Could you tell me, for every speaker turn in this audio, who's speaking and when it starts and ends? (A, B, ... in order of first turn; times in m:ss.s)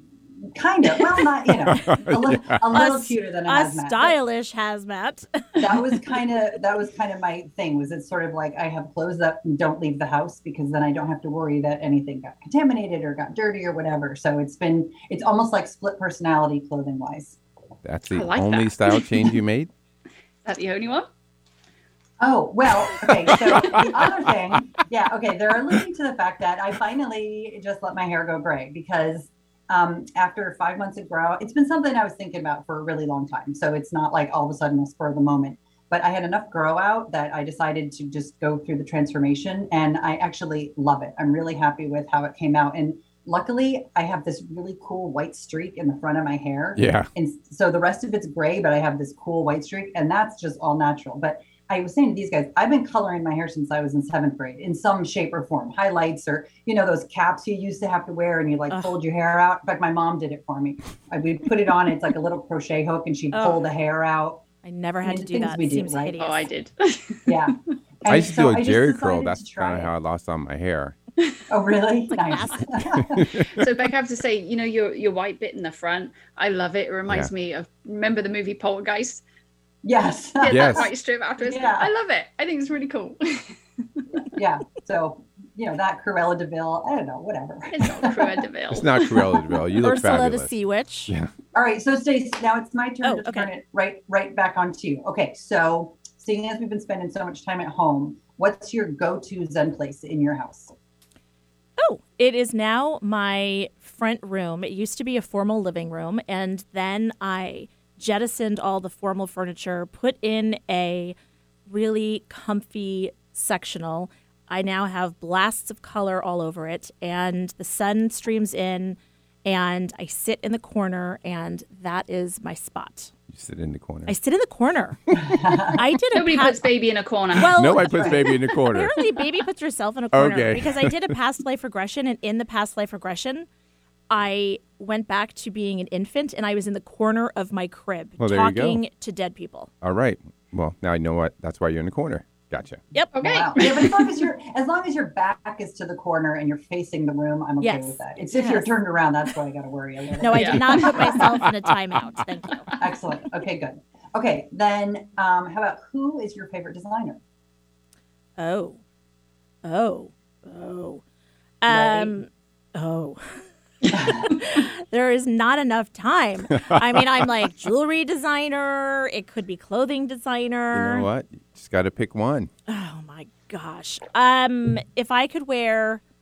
0:00.4-0:04.2 A
0:01.7-0:02.6 B
0:02.7-0:06.0 C
0:05.6-0:17.4 A
0:17.8-0:19.7 B
0:18.1-0:19.2 D
0:20.4-0:21.1 D
0:22.2-1:04.4 A
0:23.3-0:23.8 B
0:46.8-0:47.1 B
0:58.7-0:59.0 C
1:03.3-1:03.6 C
1:04.6-1:06.5 C
1:05.0-1:06.2 A
1:06.2-1:07.5 D
1:07.3-1:09.9 A
1:08.1-1:11.0 B
1:11.5-1:13.3 A
1:12.1-1:13.1 C
1:13.1-1:13.6 B
1:13.5-1:19.2 D
1:19.8-1:21.9 A
1:20.4-1:23.6 D
1:20.5-1:20.9 B
1:24.3-1:28.4 A
1:27.7-1:29.2 D
1:28.7-1:30.5 B
1:29.8-1:31.1 C
1:31.5-1:40.7 A
1:33.0-1:33.5 C
1:41.8-1:51.2 C
1:51.7-2:03.1 C
2:03.3-2:04.2 B
2:04.1-2:05.0 C
2:05.2-2:05.8 A
2:05.6-2:06.6 C
2:06.1-2:08.3 D
2:07.4-2:13.5 C
2:07.5-2:09.0 B
2:07.9-2:08.2 A
2:10.1-2:10.9 B
2:14.1-2:19.7 C
2:18.2-2:18.8 B
2:19.8-2:22.8 B
2:22.9-2:23.2 C
2:23.1-2:24.1 D
2:23.2-2:31.4 A
2:27.6-2:28.7 C
2:30.2-2:32.7 C
2:30.3-2:30.8 D
2:32.8-2:37.2 A
2:38.4-2:38.8 C
2:39.6-2:41.0 C
2:41.6-2:51.1 C
2:41.7-2:42.1 A
2:43.9-2:44.2 A
2:50.7-2:52.5 B
2:52.7-2:56.0 C